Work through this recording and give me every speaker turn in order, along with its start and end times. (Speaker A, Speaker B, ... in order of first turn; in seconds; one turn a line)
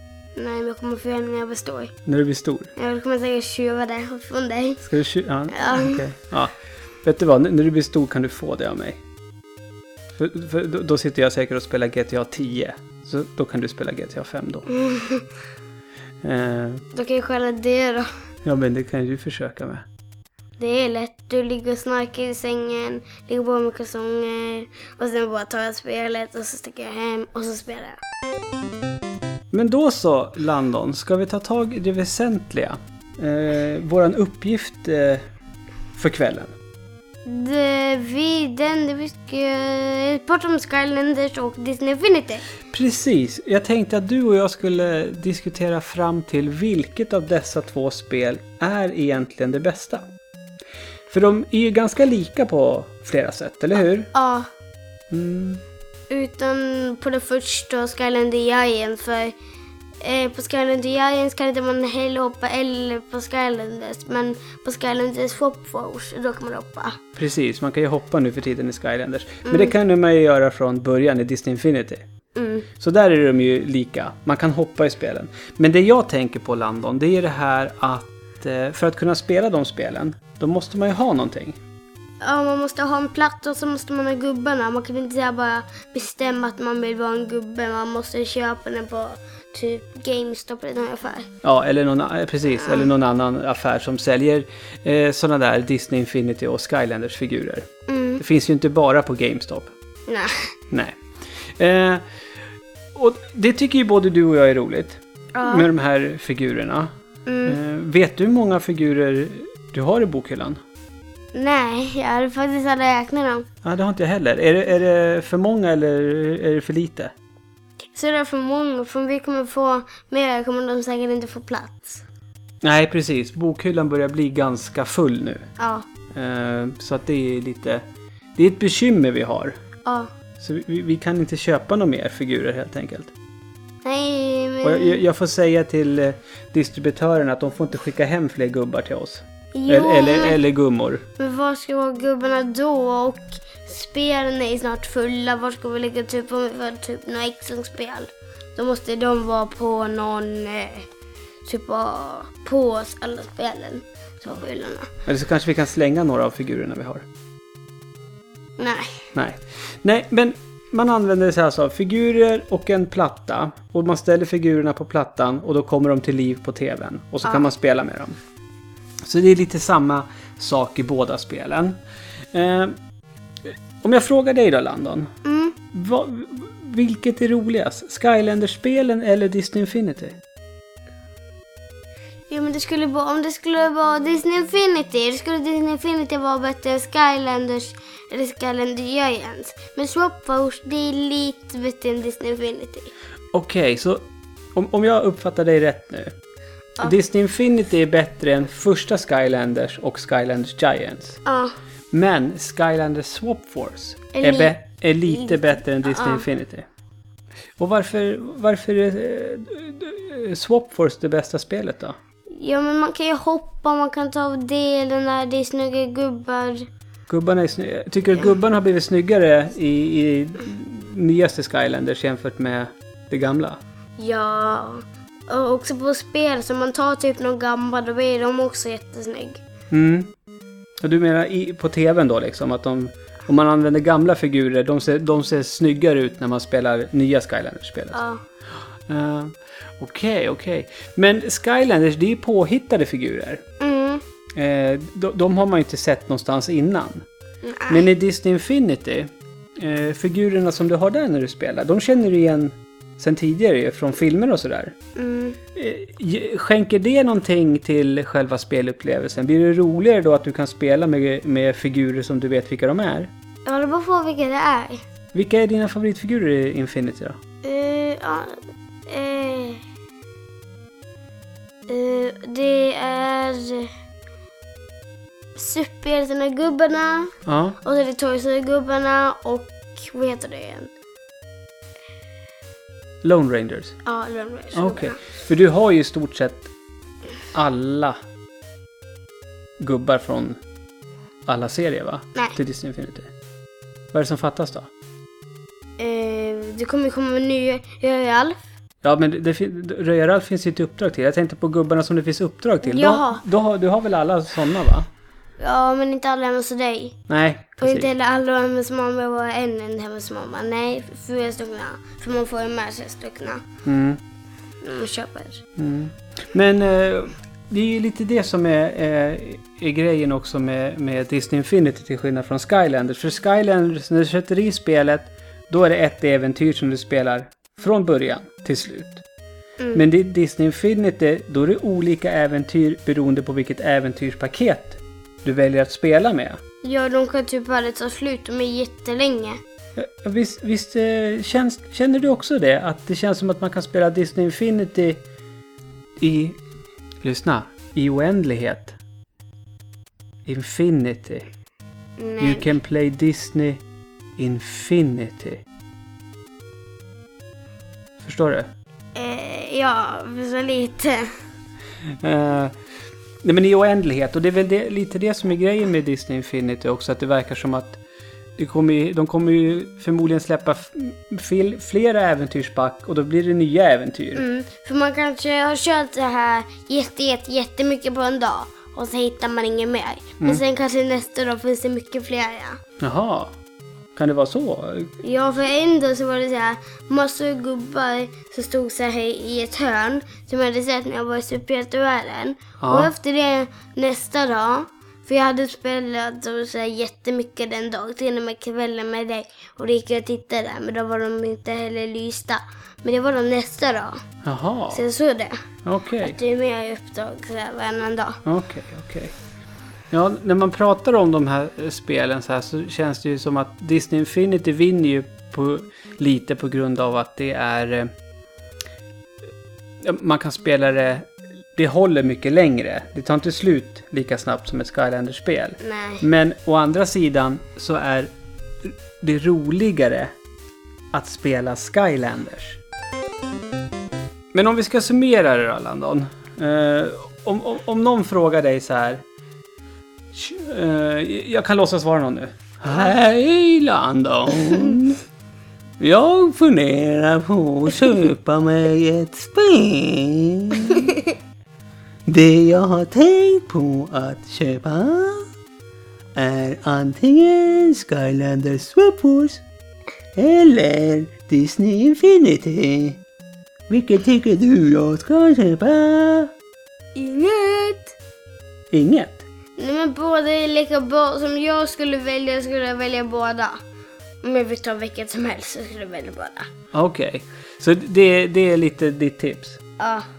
Speaker A: 0.3-1.9
Speaker B: 2.0-2.7
Speaker A: 2.8-4.8
Speaker B: 4.8-9.0
Speaker A: 5.5-6.0
Speaker B: 10.1-14.7
Speaker A: 14.7-15.3
Speaker B: 16.2-16.8
Speaker A: 16.9-18.1
Speaker B: 18.4-19.8
Speaker A: 20.6-28.0
Speaker B: 29.5-35.2
Speaker B: 35.9-36.5
Speaker A: 37.2-42.5
Speaker B: 42.7-50.0
Speaker B: 51.1-54.1
Speaker A: 54.1-54.5
Speaker B: 55.1-55.6
Speaker A: 56.1-59.3
Speaker A: 60.0-67.0
Speaker B: 67.2-72.0
Speaker A: 69.5-69.7
Speaker A: 72.3-72.7
Speaker B: 72.8-81.6
Speaker A: 82.2-91.3
Speaker B: 91.4-97.7
Speaker A: 92.6-92.9
Speaker A: 97.9-98.2
Speaker B: 98.2-99.7
Speaker B: 100.7-102.0
Speaker B: 102.9-106.9
Speaker A: 105.3-105.7
Speaker A: 107.2-107.6
Speaker B: 107.4-110.6
Speaker A: 111.3-113.5
Speaker B: 113.6-117.1
Speaker A: 117.9-122.0
Speaker B: 122.6-125.4
Speaker A: 125.6-125.9
Speaker B: 126.1-127.8
Speaker B: 128.3-129.6
Speaker B: 130.4-133.1
Speaker A: 133.8-135.0
Speaker B: 134.6-141.0
Speaker A: 139.5-140.4
Speaker A: 141.2-150.9
Speaker A: 151.4-154.9
Speaker B: 155.1-157.1
Speaker A: 158.6-159.1
Speaker B: 159.1-168.2
Speaker A: 167.2-167.5
Speaker B: 169.0-171.8
Speaker B: 172.3-172.8
Speaker B: 173.8-175.1
Speaker A: 175.2-175.6
Speaker B: 175.7-180.2
Speaker A: 182.3-192.9
Speaker B: 193.3-196.1
Speaker B: 196.8-201.2
Speaker A: 201.2-201.5
Speaker B: 201.9-206.7
Speaker A: 204.1-204.5
Speaker A: 205.1-206.2
Speaker B: 207.6-211.9
Speaker A: 212.3-216.7
Speaker B: 217.1-223.6
Speaker A: 224.0-229.4
Speaker B: 229.7-230.1
Speaker B: 230.8-238.0
Speaker A: 237.9-238.2
Speaker B: 238.9-243.4
Speaker A: 243.6-244.0
Speaker B: 244.3-247.1
Speaker A: 247.4-247.8
Speaker B: 247.7-254.7
Speaker A: 254.9-255.4
Speaker B: 255.6-263.1
Speaker A: 263.4-264.8
Speaker B: 265.1-267.2
Speaker A: 267.4-268.4
Speaker A: 268.9-269.6
Speaker A: 271.7-273.7
Speaker A: 275.4-280.7
Speaker B: 277.2-277.6
Speaker B: 283.0-283.8
Speaker A: 283.8-285.0
Speaker B: 284.5-286.5
Speaker B: 287.3-288.0
Speaker B: 289.6-290.4
Speaker B: 291.2-293.1
Speaker B: 293.9-294.7
Speaker A: 295.8-298.4
Speaker B: 298.8-304.9
Speaker A: 302.6-303.2
Speaker A: 305.4-306.9
Speaker B: 307.1-307.9
Speaker A: 307.6-313.4
Speaker B: 313.6-314.0
Speaker A: 314.6-315.4
Speaker B: 315.6-329.0
Speaker A: 329.6-329.9
Speaker B: 329.7-336.4
Speaker A: 336.6-339.4
Speaker B: 339.8-345.0
Speaker B: 346.0-346.4
Speaker B: 347.0-348.8
Speaker B: 350.2-351.3
Speaker A: 352.0-352.5
Speaker B: 352.2-353.6
Speaker B: 354.2-355.4
Speaker B: 358.0-358.5
Speaker A: 358.9-361.1
Speaker B: 361.8-362.5
Speaker B: 363.2-367.8
Speaker B: 368.4-374.2
Speaker A: 374.1-382.6
Speaker B: 382.8-383.3
Speaker B: 383.9-384.9
Speaker A: 385.0-404.0
Speaker B: 392.6-392.9
Speaker B: 404.2-404.8
Speaker A: 404.7-405.4
Speaker B: 405.6-406.2
Speaker A: 406.0-408.2
Speaker B: 408.2-409.1
Speaker B: 409.9-417.9
Speaker B: 419.8-428.1
Speaker A: 425.6-426.0
Speaker B: 428.6-430.1
Speaker B: 430.9-432.6
Speaker B: 434.3-439.0
Speaker B: 440.1-445.0
Speaker B: 445.8-451.0
Speaker B: 452.1-455.3
Speaker B: 456.1-459.4
Speaker B: 460.1-463.0
Speaker B: 463.7-466.3
Speaker A: 466.9-467.9
Speaker B: 468.7-469.2
Speaker A: 469.6-473.6
Speaker A: 474.2-476.5
Speaker B: 476.7-479.6
Speaker A: 479.8-480.1